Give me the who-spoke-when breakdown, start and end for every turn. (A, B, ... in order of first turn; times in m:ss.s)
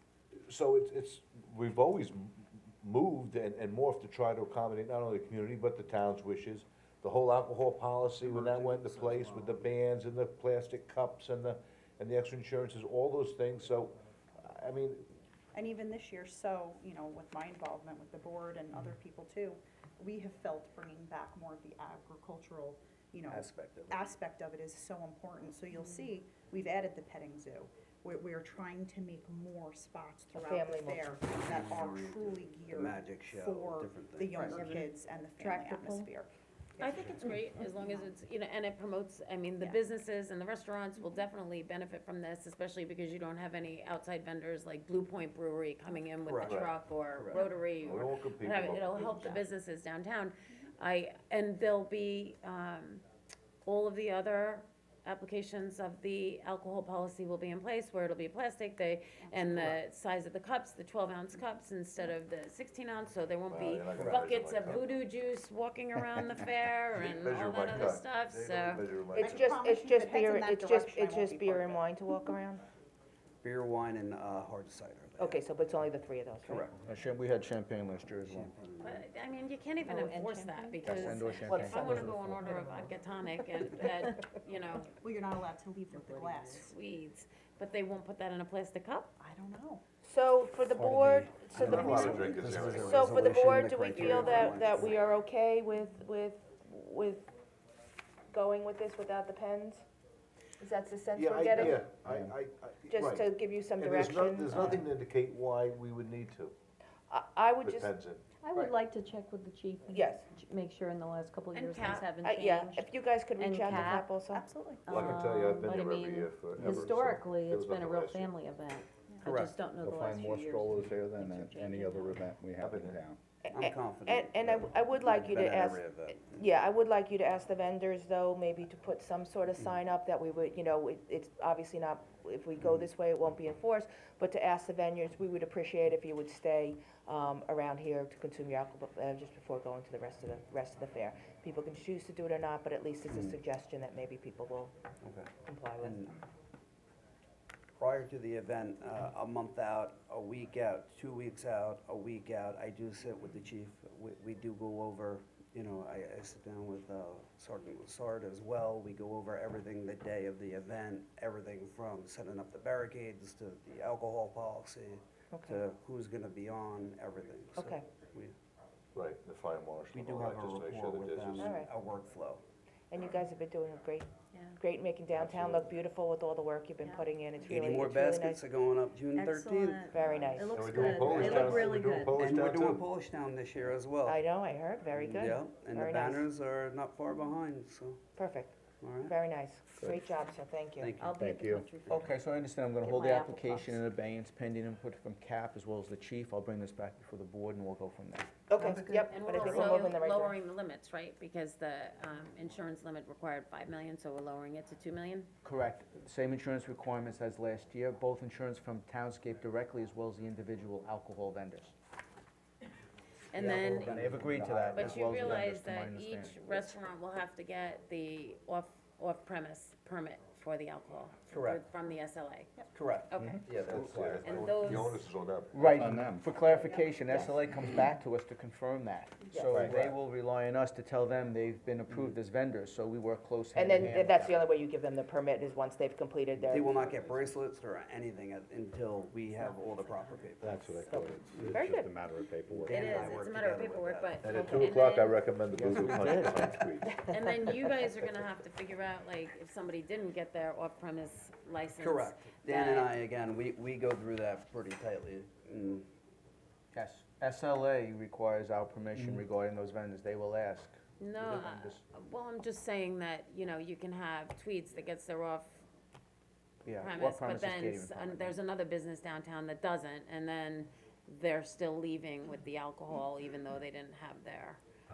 0:00.5-0:15.1 A
0:08.2-0:09.6 B
0:15.5-0:37.0 C
0:23.3-0:24.0 D
0:30.3-0:31.0 E
0:31.3-0:34.6 B
0:34.4-0:36.1 F
0:36.8-0:53.0 G
0:37.0-0:37.2 B
0:37.6-0:38.1 C
0:46.2-0:47.4 B
0:46.4-0:46.7 A
0:47.8-0:49.4 A
0:53.6-1:08.8 G
0:59.2-0:59.7 C
1:03.5-1:04.8 A
1:03.9-1:04.2 B
1:06.9-1:09.5 A
1:09.2-1:11.8 C
1:09.2-1:12.6 E
1:13.4-1:15.4 B
1:15.2-1:16.7 E
1:16.4-1:16.8 B
1:16.8-1:18.5 D
1:18.3-1:19.0 B
1:18.8-1:24.9 G
1:19.8-1:22.9 F
1:20.8-1:22.6 D
1:25.0-1:26.7 C
1:25.9-1:26.5 F
1:26.5-1:29.1 G
1:29.2-1:29.8 C
1:30.0-1:37.2 E
1:30.7-1:34.9 B
1:31.5-1:33.1 A
1:34.2-1:34.4 C
1:38.3-1:39.8 E
1:40.6-1:41.8 E
1:41.1-1:46.5 A
1:42.9-1:44.8 E
1:47.1-1:47.9 E
1:47.6-1:48.2 A
1:48.4-1:54.2 F
1:49.9-1:50.3 E
1:51.5-1:52.1 G
1:52.2-1:54.4 E
1:54.3-1:54.9 C
1:54.8-2:02.2 F
1:54.9-1:58.3 A
1:59.2-1:59.5 B
1:59.8-2:03.2 H
2:02.6-2:03.0 A
2:03.4-2:24.7 E
2:03.5-2:06.5 B
2:23.1-2:23.4 B
2:25.0-2:25.3 B
2:25.4-2:26.2 E
2:25.8-2:26.2 B
2:27.8-2:48.3 B
2:45.3-2:45.6 E
2:47.5-2:47.8 E
2:48.9-2:51.5 A
2:49.9-2:52.4 B
2:51.4-2:51.7 E
2:52.9-2:58.4 E
2:55.2-2:55.6 A
2:57.5-3:04.2 B
2:59.1-3:02.3 F
2:59.8-3:00.6 E
3:00.5-3:02.8 A
3:04.0-3:06.3 E
3:04.9-3:08.0 B
3:08.2-3:10.9 E
3:08.8-3:09.2 B
3:09.8-3:10.0 H
3:10.8-3:11.2 B
3:11.0-3:12.1 F
3:11.2-3:11.7 H
3:11.9-3:18.3 D
3:12.8-3:13.8 F
3:18.5-3:20.3 E
3:18.7-3:19.6 F
3:19.1-3:25.3 G
3:25.4-3:31.7 D
3:33.3-3:33.9 G
3:33.3-3:35.4 B
3:33.4-3:36.8 D
3:34.7-3:43.4 G
3:41.3-3:41.6 B
3:42.7-3:44.6 B
3:43.6-3:45.6 A
3:44.2-3:45.0 G
3:45.5-3:54.3 D
3:45.6-3:46.2 H
3:49.3-3:49.6 E
3:49.5-3:49.8 H
3:53.5-3:57.1 E
3:56.4-4:00.7 B
3:59.4-4:00.7 G
4:00.4-4:03.1 H
4:00.9-4:01.9 E
4:02.5-4:04.2 B
4:02.6-4:05.2 G
4:04.2-4:07.0 A
4:05.6-4:06.5 D
4:07.1-4:13.0 G
4:11.8-4:15.9 B
4:16.7-4:21.8 D
4:21.0-4:25.6 G
4:26.6-4:28.4 D
4:26.8-4:34.6 G